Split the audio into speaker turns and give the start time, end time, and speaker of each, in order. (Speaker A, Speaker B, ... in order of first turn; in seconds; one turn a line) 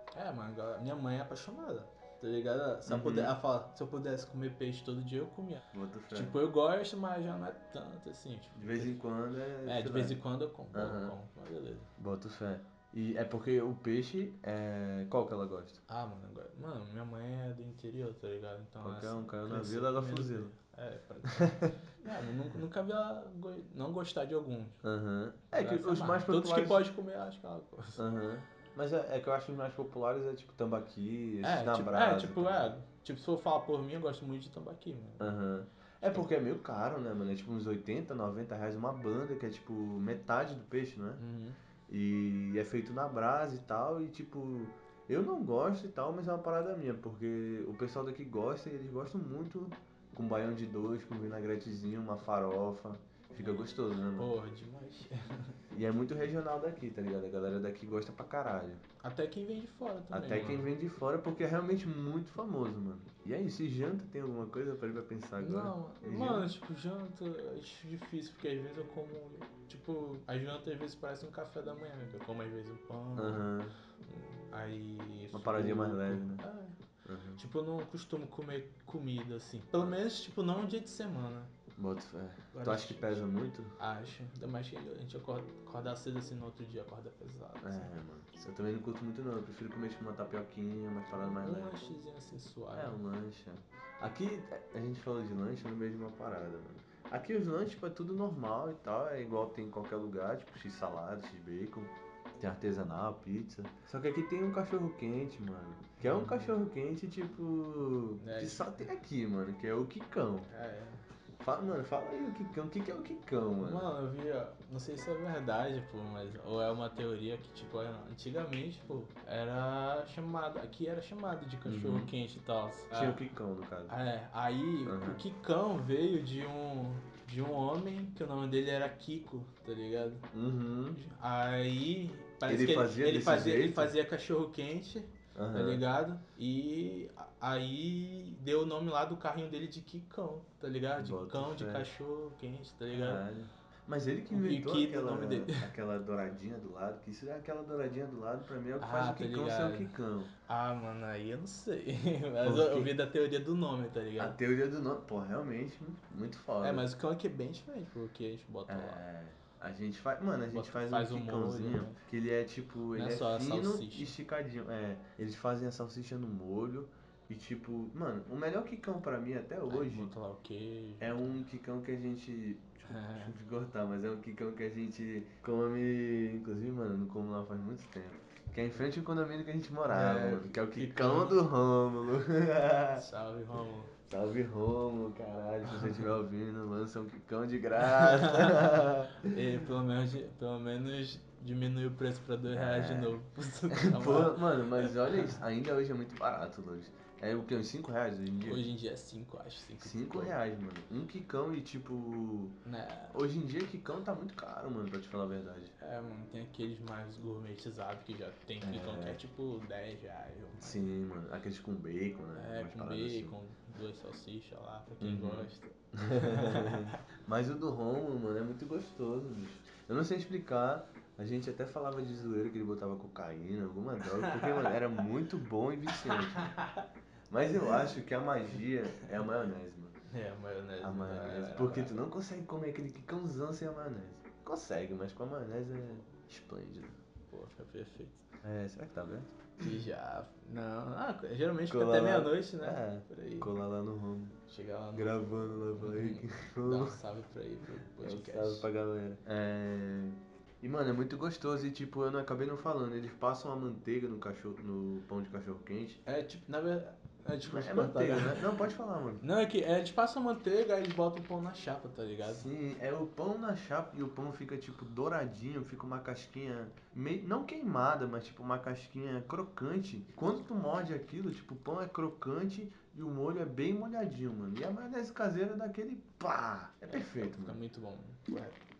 Speaker A: 0.1-9.0
Speaker B: 2.9-3.3
Speaker B: 5.7-6.3
Speaker B: 8.6-11.1
Speaker A: 9.6-11.9
Speaker B: 12.0-15.8
Speaker A: 15.9-24.8
Speaker B: 18.8-20.5
Speaker B: 21.2-21.8
Speaker B: 24.8-26.8
Speaker A: 25.5-28.0
Speaker B: 27.9-32.7
Speaker A: 31.4-35.3
Speaker B: 35.2-41.2
Speaker A: 36.0-36.3
Speaker A: 41.2-41.6
Speaker B: 41.9-54.3
Speaker A: 53.3-55.6
Speaker B: 55.7-58.8
Speaker A: 59.0-60.7
Speaker B: 60.1-66.5
Speaker A: 65.4-73.5
Speaker B: 73.2-73.7
Speaker A: 74.0-76.8
Speaker B: 75.3-76.4
Speaker B: 77.0-77.4
Speaker A: 77.4-81.5
Speaker B: 81.8-83.7
Speaker A: 82.5-83.2
Speaker A: 83.8-87.9
Speaker B: 87.6-91.8
Speaker A: 91.1-93.0
Speaker B: 92.7-110.5
Speaker A: 106.0-106.5
Speaker A: 108.2-108.9
Speaker A: 110.5-111.0
Speaker B: 111.4-113.9
Speaker A: 113.6-123.2
Speaker B: 121.7-122.1
Speaker B: 122.9-124.0
Speaker A: 123.9-130.2
Speaker B: 124.8-125.2
Speaker B: 130.3-131.0
Speaker A: 130.9-143.2
Speaker B: 132.4-133.9
Speaker B: 135.3-135.8
Speaker B: 141.0-141.9
Speaker B: 142.9-150.3
Speaker A: 144.3-145.7
Speaker A: 148.8-149.9
Speaker A: 150.4-154.4
Speaker B: 152.4-152.9
Speaker B: 154.2-156.9
Speaker A: 156.6-159.0
Speaker B: 158.7-170.1
Speaker A: 160.5-162.0
Speaker A: 162.9-164.1
Speaker A: 169.7-171.1
Speaker B: 171.0-183.1
Speaker A: 172.9-173.3
Speaker A: 179.9-181.4
Speaker A: 182.9-183.9
Speaker B: 184.1-189.4
Speaker A: 187.8-195.4
Speaker B: 192.5-193.2
Speaker B: 193.7-198.6
Speaker A: 198.4-200.3
Speaker B: 199.8-202.6
Speaker A: 202.6-203.2
Speaker B: 203.1-205.7
Speaker A: 205.8-210.9
Speaker B: 208.6-209.2
Speaker B: 210.6-213.4
Speaker A: 212.3-217.0
Speaker B: 215.0-226.5
Speaker A: 224.1-224.8
Speaker A: 225.9-226.9
Speaker B: 227.3-229.9
Speaker A: 230.1-232.0
Speaker B: 230.8-237.0
Speaker A: 237.3-238.2
Speaker B: 238.4-239.4
Speaker A: 239.6-243.5
Speaker B: 241.7-244.4
Speaker A: 244.5-248.7
Speaker B: 244.9-247.0
Speaker B: 248.0-256.0
Speaker A: 256.1-258.6
Speaker B: 257.5-259.2
Speaker A: 259.2-262.5
Speaker B: 262.2-277.6
Speaker A: 276.8-278.6